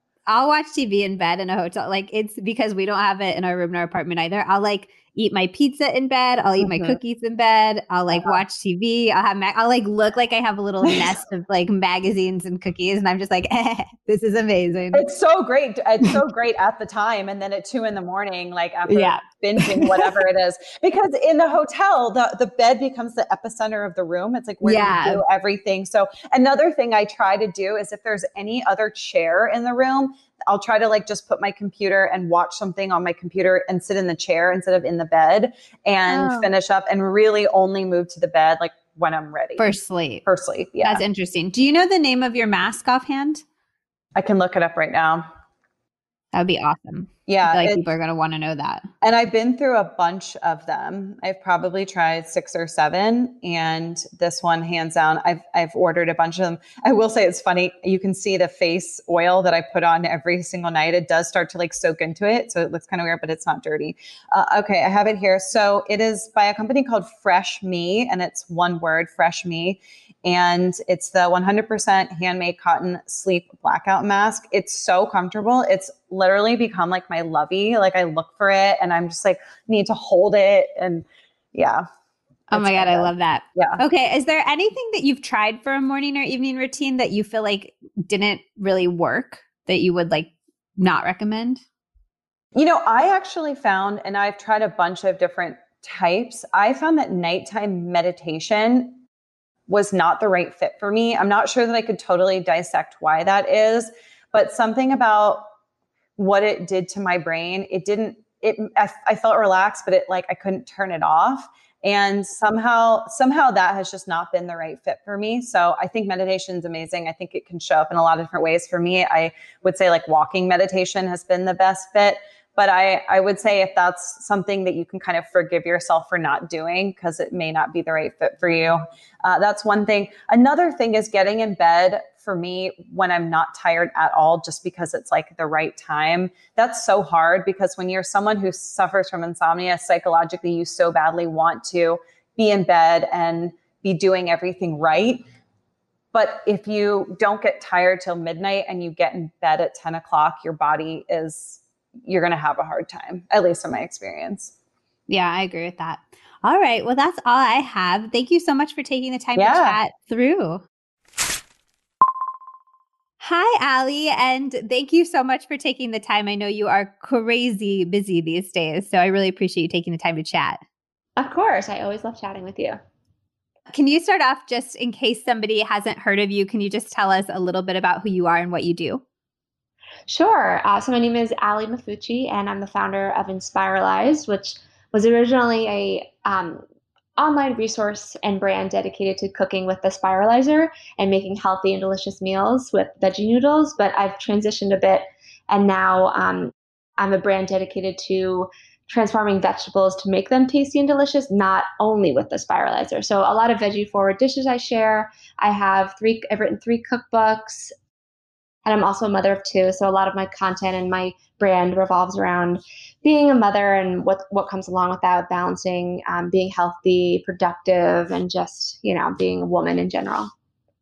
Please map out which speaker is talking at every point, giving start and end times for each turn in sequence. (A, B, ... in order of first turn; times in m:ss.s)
0:00.3-0:15.0 A
0:06.6-0:07.0 B
0:14.9-0:39.7 B
0:18.9-0:20.1 A
0:24.6-0:25.2 A
0:36.1-0:36.5 A
0:39.6-0:40.2 A
0:40.2-0:41.0 B
0:40.8-0:43.4 A
0:44.2-0:45.2 B
0:46.3-0:48.9 A
0:47.3-0:47.8 B
0:49.0-1:21.8 B
1:22.5-1:31.6 A
1:22.5-1:23.8 B
1:32.5-1:39.0 B
1:39.7-1:45.5 B
1:46.2-2:25.2 B
2:26.1-2:34.5 B
2:35.1-2:40.6 A
2:39.4-2:39.8 B
2:43.2-2:50.6 A
2:51.2-2:52.8 C
2:53.7-2:59.0 A
3:00.1-3:06.6 C
3:07.2-3:27.7 C
3:28.6-3:40.3 C